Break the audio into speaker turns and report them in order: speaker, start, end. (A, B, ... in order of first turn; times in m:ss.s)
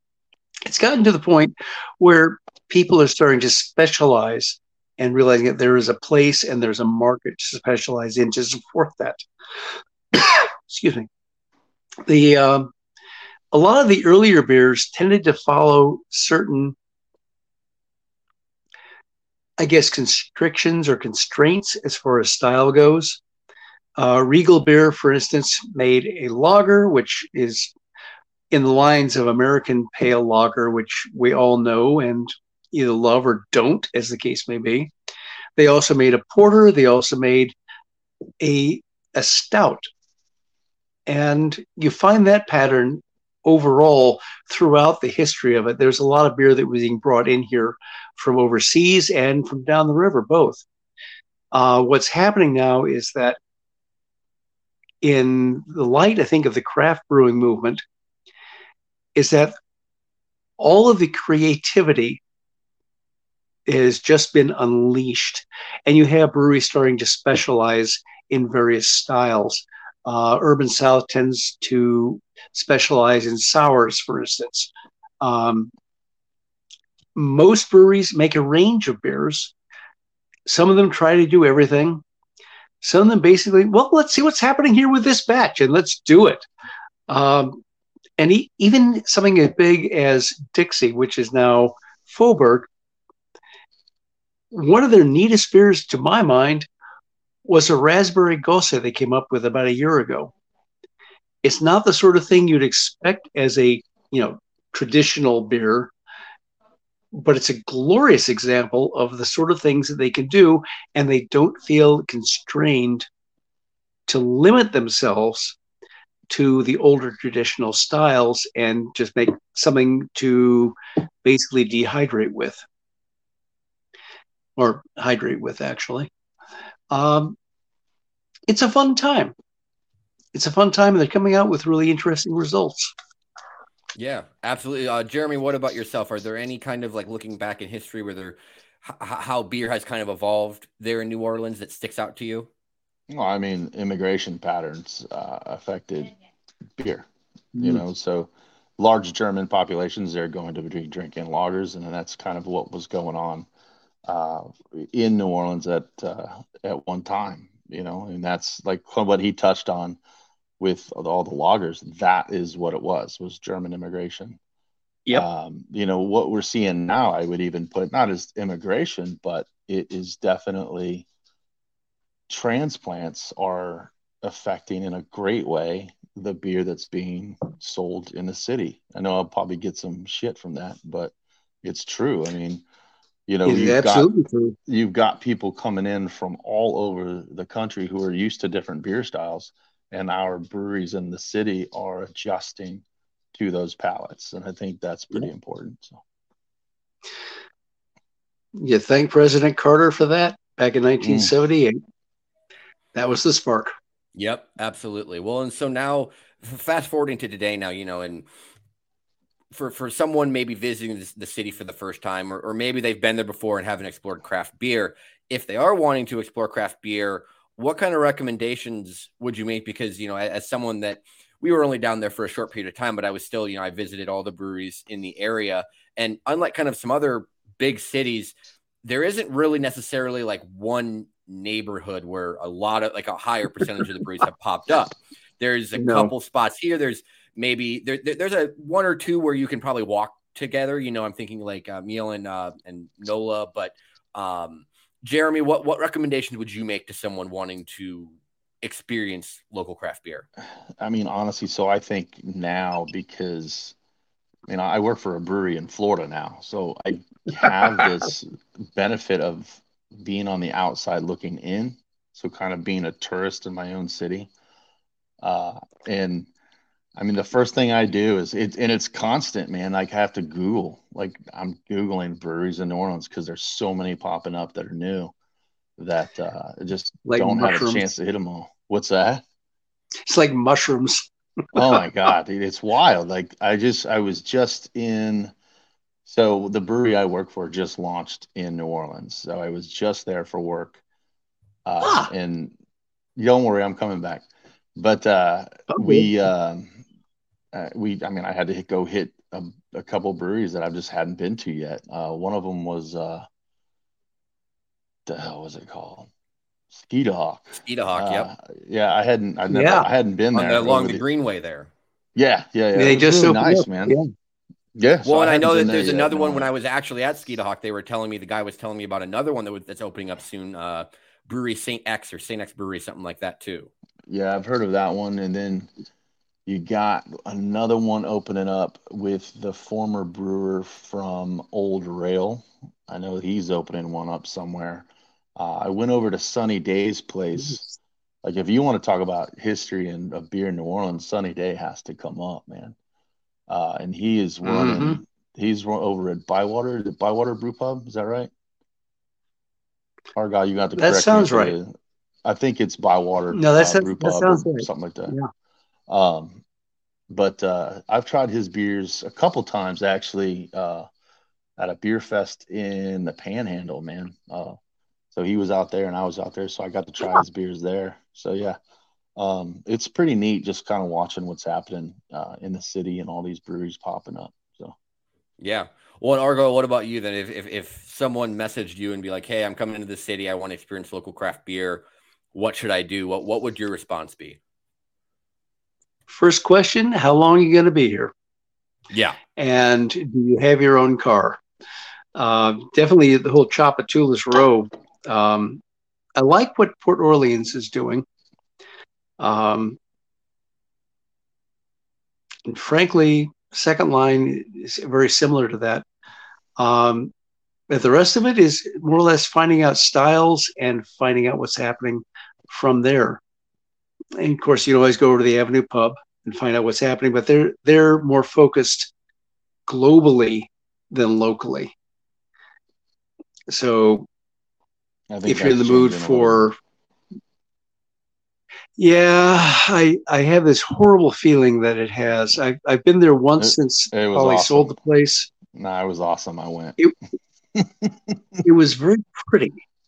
0:00.6-0:09.2 A
0:10.1-0:11.1 A
0:12.1-0:12.7 A
0:13.5-0:16.8 A
0:19.6-0:23.2 A
0:24.0-0:27.7 A
0:28.5-0:34.9 A
0:35.6-0:37.5 A
0:38.4-0:39.9 A
0:41.1-0:50.6 A
0:51.5-0:53.4 A
0:55.0-0:57.8 A
0:59.1-0:59.5 A
1:00.6-1:02.2 A
1:03.7-1:15.7 A
1:17.2-1:19.5 A
1:20.4-1:22.0 A
1:22.8-1:26.4 A
1:27.1-1:27.6 A
1:28.2-1:32.7 A
1:34.5-1:36.7 A
1:37.4-1:40.3 A
1:41.4-1:45.9 A
1:47.1-1:53.1 A
1:54.1-1:55.6 A
1:56.3-2:02.6 A
2:04.6-2:06.1 A
2:06.9-2:07.4 A
2:08.5-2:09.3 A
2:10.3-2:12.9 A
2:13.9-2:22.5 B
2:23.1-2:26.1 C
2:26.8-2:27.0 C
2:27.5-2:27.8 A
2:27.6-2:33.5 C
2:34.0-2:40.0 C
2:40.6-2:44.4 C
2:45.1-2:51.0 C
2:52.3-3:02.6 C
3:03.3-3:04.1 C
3:03.4-3:04.6 A
3:04.6-3:16.0 C
3:18.5-3:21.8 A
3:21.0-3:21.3 C
3:22.9-3:23.7 A
3:24.1-3:28.2 B
3:29.5-3:48.3 B
3:48.8-4:10.2 B
3:55.8-3:56.1 A
4:10.8-4:13.7 C
4:14.5-4:24.3 C
4:25.2-4:26.3 C
4:27.0-4:35.1 C
4:35.8-4:39.2 C
4:37.0-4:37.8 A
4:40.1-4:41.6 A
4:41.5-4:45.3 C
4:46.0-4:50.8 C
4:51.6-4:52.5 C
4:51.8-4:52.1 A
4:53.2-4:56.7 C
4:55.7-4:56.1 A
4:57.5-5:03.3 C
5:05.0-5:06.1 C
5:06.7-5:11.0 C
5:07.6-5:08.3 B
5:09.5-5:09.9 A
5:10.3-5:11.7 B
5:12.1-5:14.0 C
5:12.8-5:14.1 A
5:14.7-5:16.5 C
5:15.0-5:23.7 B
5:24.1-5:25.7 C
5:26.4-5:37.6 C
5:38.2-5:42.8 C
5:43.5-5:48.3 C
5:44.4-5:45.0 A
5:50.1-5:51.7 C
5:50.8-5:51.5 A
5:52.2-5:55.2 C
5:53.3-5:55.3 A
5:55.9-5:56.4 C
5:57.1-6:00.9 C
6:01.6-6:04.6 C
6:05.1-6:08.6 C
6:09.2-6:14.8 C
6:15.4-6:24.4 B
6:26.1-6:28.1 A
6:28.9-6:29.2 B
6:29.4-6:31.4 A
6:32.1-6:35.6 A
6:36.2-6:38.0 A
6:39.2-6:39.8 A
6:42.5-6:45.8 A
6:46.6-6:47.1 A
6:47.7-6:53.2 A
6:54.2-6:58.9 A
6:59.7-7:01.7 A
7:03.5-7:04.1 A
7:05.1-7:06.5 C
7:05.2-7:06.6 A
7:08.8-7:15.3 A
7:13.4-7:14.8 C
7:15.5-7:16.8 C
7:17.5-7:18.2 C
7:18.4-7:19.6 A